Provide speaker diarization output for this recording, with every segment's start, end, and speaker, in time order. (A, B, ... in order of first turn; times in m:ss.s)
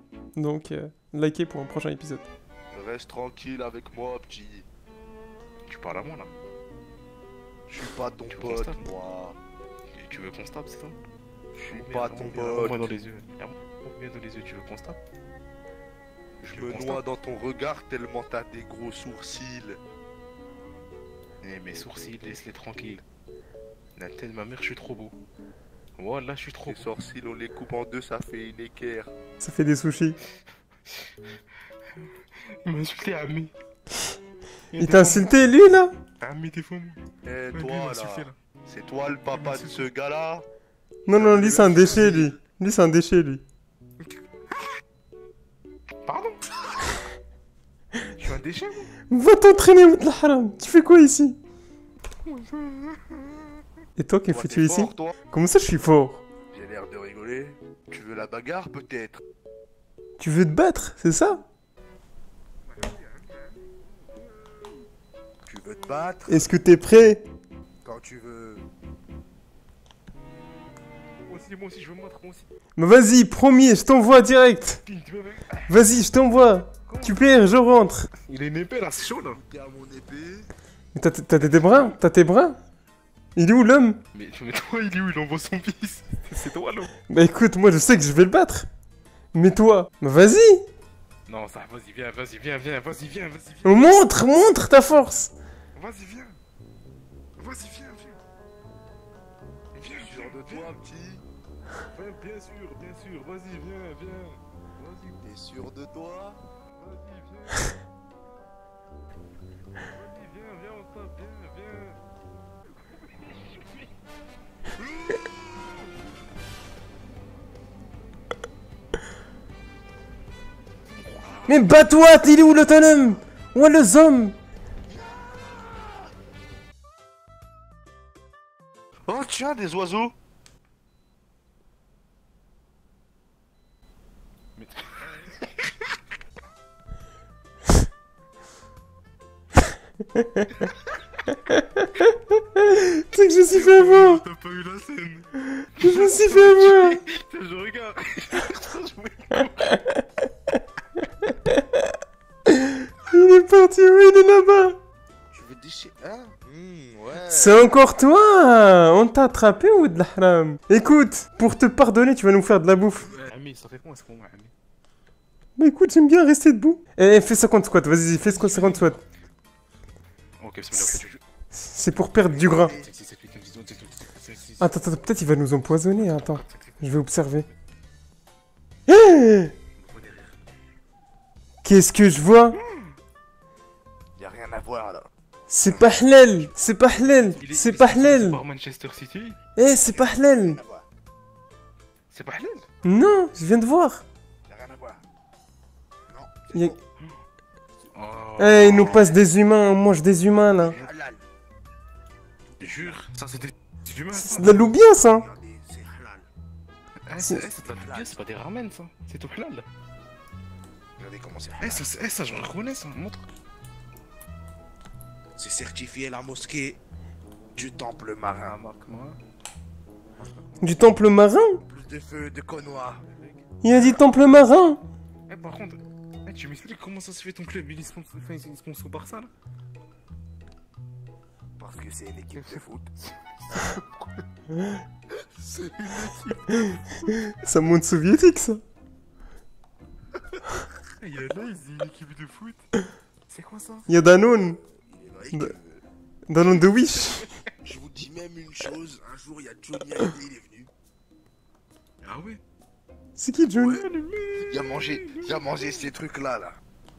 0:00.4-0:02.2 A
0:02.7-0:04.6 B
0:05.7-0:06.3 C
0:07.7-0:09.4 B
0:08.3-0:08.8 C
0:10.0-0:11.0 C
0:11.5-0:12.9 B
0:11.7-0:15.0 C
0:16.4-0:17.0 C
0:16.5-0:19.8 B
0:21.4-0:23.0 C
0:24.0-0:25.1 C
0:26.0-0:26.8 C
0:26.7-0:29.1 B
0:29.4-0:30.2 A
0:32.6-0:33.5 C
0:34.7-0:35.3 C
0:34.8-0:35.9 A
0:36.2-0:37.0 C
0:37.2-0:40.4 B
0:37.5-0:38.4 C
0:39.3-0:39.9 C
0:41.0-0:43.4 A
0:41.1-0:42.4 B
0:46.0-0:46.6 C
0:48.1-0:48.9 C
0:49.1-0:51.4 A
0:52.2-0:53.5 C
0:54.0-0:56.2 A
0:54.3-0:55.1 B
0:56.5-0:59.2 B
1:00.2-1:01.4 A
1:02.6-1:04.8 C
1:05.4-1:06.5 B
1:06.3-1:07.2 A
1:07.8-1:08.7 B
1:11.2-1:12.5 C
1:12.8-1:14.8 A
1:14.8-1:15.7 C
1:15.7-1:18.1 A
1:16.9-1:17.3 C
1:18.2-1:19.4 C
1:19.3-1:20.5 B
1:20.9-1:22.6 A
1:21.4-1:22.0 C
1:23.4-1:24.0 A
1:24.1-1:26.9 C
1:27.1-1:28.7 A
1:29.3-1:30.6 A
1:31.3-1:34.0 C
1:33.6-1:35.3 A
1:35.7-1:36.4 C
1:37.4-1:38.2 C
1:39.7-1:40.7 C
1:40.0-1:41.2 B
1:41.9-1:45.2 C
1:45.2-1:46.4 B
1:46.7-1:47.8 C
1:49.8-1:52.0 C
1:52.9-1:53.9 C
1:55.0-1:55.3 B
2:01.2-2:01.5 C
2:01.4-2:04.4 A
2:09.0-2:10.1 B
2:14.6-2:15.7 C
2:20.2-2:20.4 A
2:21.4-2:24.2 A
2:23.5-2:29.8 C
2:25.5-2:27.0 A
2:31.2-2:31.9 A
2:32.5-2:34.8 A
2:35.3-2:37.7 B
2:37.3-2:43.2 A
2:43.0-2:44.5 C
2:45.6-2:49.0 A
2:48.3-2:49.0 C
2:50.4-2:51.2 C
2:50.8-2:51.0 A
2:51.5-2:52.7 A
2:52.3-2:52.9 B
2:52.7-2:54.7 C
2:54.6-2:57.5 A
2:56.0-2:56.9 C
2:58.9-2:59.5 A
2:59.8-3:00.4 C
3:01.6-3:02.6 A
3:02.5-3:03.0 C
3:04.2-3:05.1 B
3:05.5-3:08.4 A
3:07.4-3:09.4 C
3:09.6-3:10.6 A
3:09.9-3:10.8 B
3:12.1-3:12.6 C
3:12.8-3:14.0 A
3:14.5-3:15.0 B
3:16.1-3:16.8 B
3:17.9-3:19.1 C
3:18.4-3:20.8 A
3:20.6-3:21.2 B
3:22.6-3:23.0 B
3:22.6-3:24.7 C
3:24.1-3:25.2 A
3:25.0-3:26.3 B
3:27.1-3:29.6 C
3:27.2-3:27.4 A
3:27.6-3:28.2 B
3:31.0-3:31.8 B
3:31.6-3:33.2 C
3:35.4-3:36.8 B
3:37.5-3:38.6 B
3:38.4-3:39.2 C
3:40.2-3:40.8 C
3:40.6-3:41.6 A
3:41.7-3:43.0 B
3:43.0-3:43.4 C
3:43.6-3:44.8 A
3:45.3-3:49.3 C
3:51.6-3:52.9 B
3:52.4-3:54.1 C
3:55.4-3:57.1 C
3:57.1-3:58.6 A
4:01.0-4:02.7 C
4:03.3-4:03.8 C
4:03.9-4:04.6 A
4:04.8-4:05.8 B
4:06.3-4:07.2 A
4:06.6-4:07.3 C
4:07.6-4:10.7 B
4:12.0-4:12.4 C
4:13.2-4:13.8 A
4:13.6-4:15.9 C
4:14.4-4:16.6 B